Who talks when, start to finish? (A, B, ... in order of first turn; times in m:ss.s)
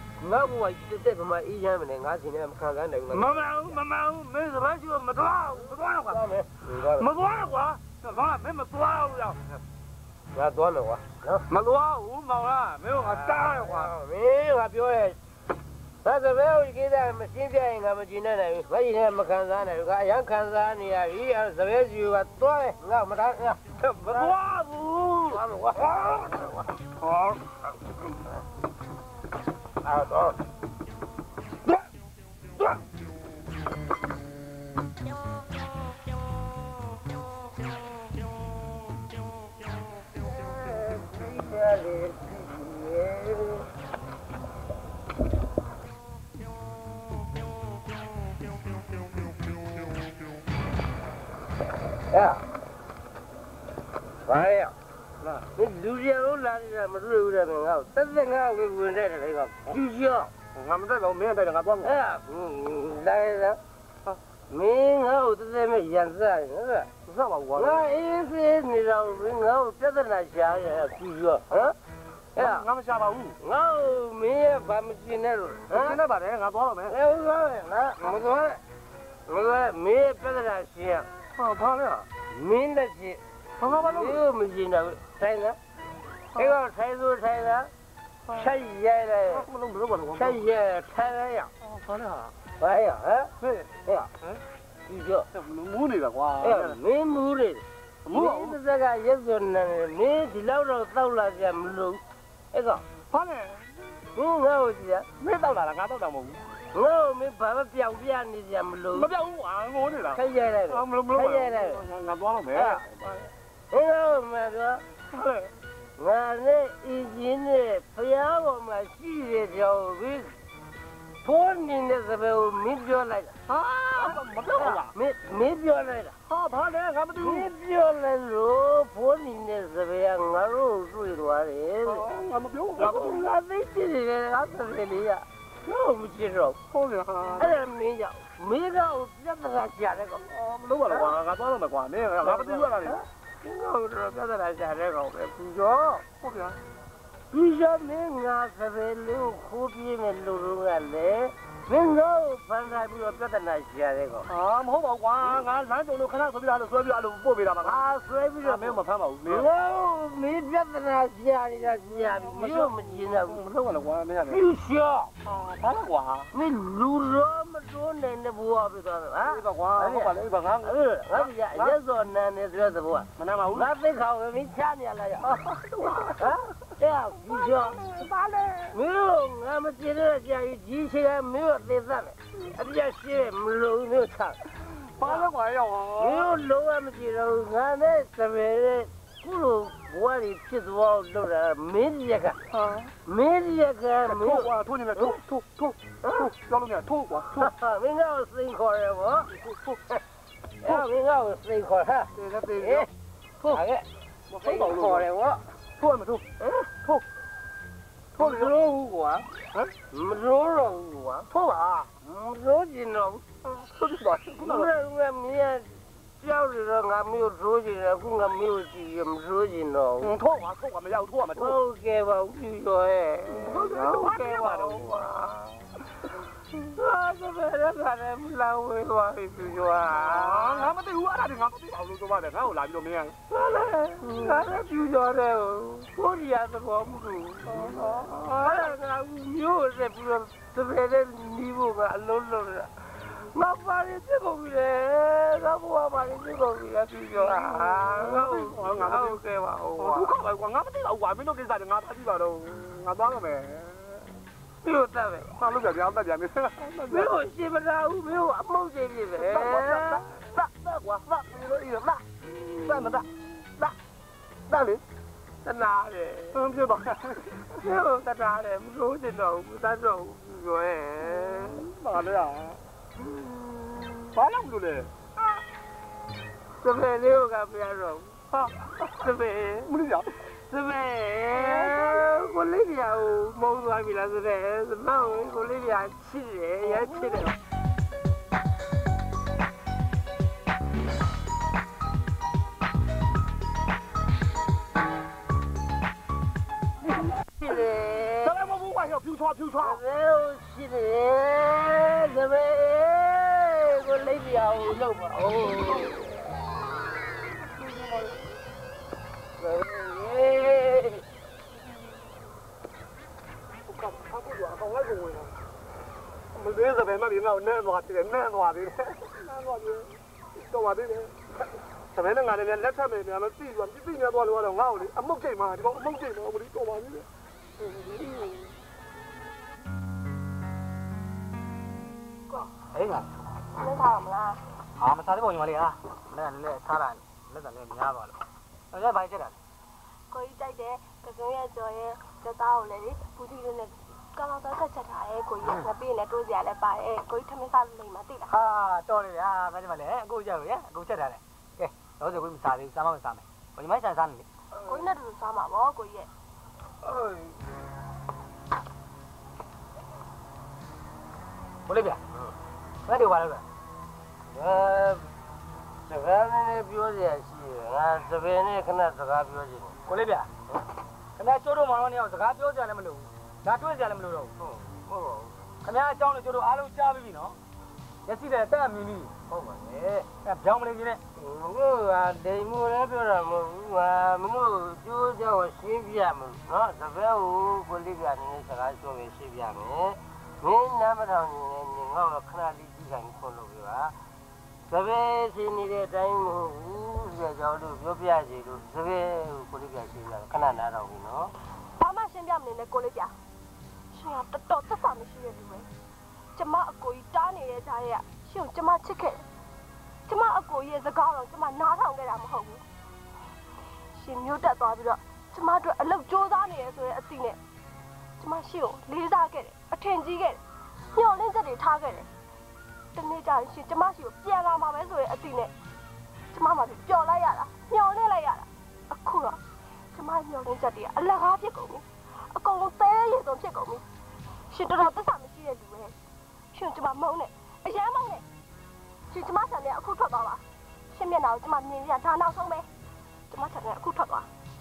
0:00.2-0:03.8 A
0:03.2-0:06.1 B
0:06.1-0:07.1 A
0:07.0-0:09.4 B
0:10.3-0:11.4 A
0:11.6-0:13.0 B
0:11.6-0:12.3 C
0:12.8-0:13.9 C
0:13.0-0:15.2 A
0:16.0-0:24.4 A
0:24.1-0:25.2 B
0:25.3-0:26.6 A
0:27.0-0:27.4 C
0:29.8-0:30.4 A
0:40.3-0:43.7 A
0:52.1-0:52.4 A
0:54.3-0:54.7 A
0:55.6-1:00.3 A
1:00.5-1:01.9 C
1:01.8-1:03.6 A
1:04.5-1:06.9 A
1:07.0-1:07.9 C
1:07.6-1:11.8 A
1:12.4-1:12.7 A
1:12.4-1:13.4 C
1:13.4-1:16.0 A
1:15.7-1:17.0 C
1:16.9-1:18.6 A
1:19.3-1:21.1 A
1:21.4-1:22.1 C
1:22.2-1:25.6 A
1:23.6-1:24.2 C
1:26.4-1:27.7 A
1:28.3-1:28.5 C
1:28.3-1:29.5 A
1:29.3-1:30.4 C
1:30.1-1:31.5 A
1:31.6-1:32.3 C
1:32.5-1:34.1 A
1:33.4-1:34.4 C
1:34.9-1:35.3 A
1:35.3-1:36.8 C
1:36.4-1:42.8 A
1:38.1-1:38.6 C
1:43.1-1:43.7 C
1:44.1-1:45.1 A
1:45.2-1:46.5 C
1:46.7-1:49.1 A
1:48.9-1:53.2 C
1:50.1-1:51.9 A
1:52.6-1:52.8 A
1:53.7-1:54.8 A
1:55.1-1:55.5 C
1:56.0-2:00.4 A
2:01.2-2:03.4 A
2:03.5-2:04.9 C
2:04.0-2:06.2 A
2:06.3-2:07.5 C
2:07.2-2:12.1 A
2:11.9-2:13.3 C
2:12.8-2:16.6 A
2:16.7-2:17.6 C
2:17.3-2:20.2 A
2:20.3-2:23.0 C
2:20.8-2:21.2 A
2:22.2-2:26.0 A
2:26.1-2:26.6 C
2:27.3-2:34.3 A
2:34.2-2:37.8 C
2:35.2-2:35.4 A
2:37.6-2:43.4 A
2:38.4-2:39.5 C
2:42.2-2:44.5 C
2:44.3-2:45.1 A
2:45.2-2:46.3 C
2:46.3-2:55.4 A
2:49.2-2:51.8 C
2:53.2-2:53.7 C
2:55.2-2:56.3 C
2:55.9-2:57.8 A
2:57.4-2:58.8 C
2:58.7-3:04.4 A
3:05.0-3:06.3 C
3:05.0-3:05.3 A
3:06.0-3:12.4 A
3:12.5-3:12.9 C
3:13.0-3:15.2 A
3:14.1-3:17.5 C
3:16.0-3:16.3 A
3:17.4-3:19.3 A
3:19.4-3:19.8 C
3:20.6-3:22.9 A
3:22.2-3:22.9 C
3:23.4-3:23.9 A
3:24.3-3:25.1 C
3:24.4-3:25.4 A
3:25.8-3:26.2 C
3:26.4-3:26.7 A
3:28.2-3:29.3 A
3:28.2-3:28.5 C
3:29.9-3:31.3 A
3:31.3-3:31.9 C
3:32.0-3:33.6 A
3:33.6-3:34.7 C
3:34.2-3:40.2 A
3:40.0-3:41.6 C
3:41.4-3:45.6 A
3:43.3-3:45.3 C
3:46.6-3:50.7 A
3:50.0-3:53.2 C
3:53.3-4:10.1 A
3:54.1-3:54.4 C
3:57.5-3:58.6 C
4:07.1-4:09.2 C
4:09.8-4:14.0 C
4:14.6-4:15.3 A
4:15.3-4:17.1 C
4:16.9-4:20.1 A
4:19.2-4:22.0 C
4:22.5-4:23.1 A
4:22.6-4:23.0 C
4:24.5-4:24.8 C
4:25.4-4:26.4 A
4:26.3-4:27.5 C
4:27.5-4:31.6 A
4:31.2-4:32.6 C
4:33.0-4:34.2 A
4:34.1-4:34.9 C
4:36.6-4:38.2 A
4:38.3-4:39.0 C
4:38.9-4:39.7 A
4:39.6-4:40.1 C
4:40.2-4:47.4 A
4:41.4-4:42.0 C
4:56.9-4:57.6 C
4:57.4-4:58.4 A
4:58.2-4:59.8 C
4:59.6-5:06.1 A
5:07.6-5:08.2 C
5:09.4-5:11.0 A
5:13.7-5:15.3 C
5:16.4-5:21.2 C
5:21.9-5:27.1 C
5:27.6-5:28.4 C
5:32.5-5:33.1 B
5:33.6-5:34.4 D
5:34.8-5:38.2 B
5:38.7-5:39.4 B
5:40.1-5:48.3 D
5:48.3-5:54.3 B
5:54.6-5:56.1 D
5:56.8-5:57.3 A
6:01.7-6:02.0 B
6:02.9-6:03.4 B
6:04.3-6:05.1 A
6:05.9-6:09.8 A
6:09.9-6:10.3 B
6:11.2-6:14.3 B
6:14.4-6:15.3 A
6:15.6-6:17.4 B
6:18.0-6:19.1 B
6:19.3-6:20.1 A
6:20.2-6:21.0 B
6:21.2-6:34.0 A
6:34.7-6:41.4 A
6:41.8-6:43.1 D
6:43.9-6:45.7 D
6:46.4-6:49.2 D
6:50.1-6:52.6 D
6:54.0-6:57.4 D
6:58.2-7:00.4 D
7:00.9-7:02.1 D
7:03.0-7:05.5 D
7:06.3-7:09.4 D
7:09.9-7:13.8 D
7:14.5-7:16.0 D
7:16.5-7:18.2 D
7:19.1-7:22.7 D
7:23.3-7:24.3 D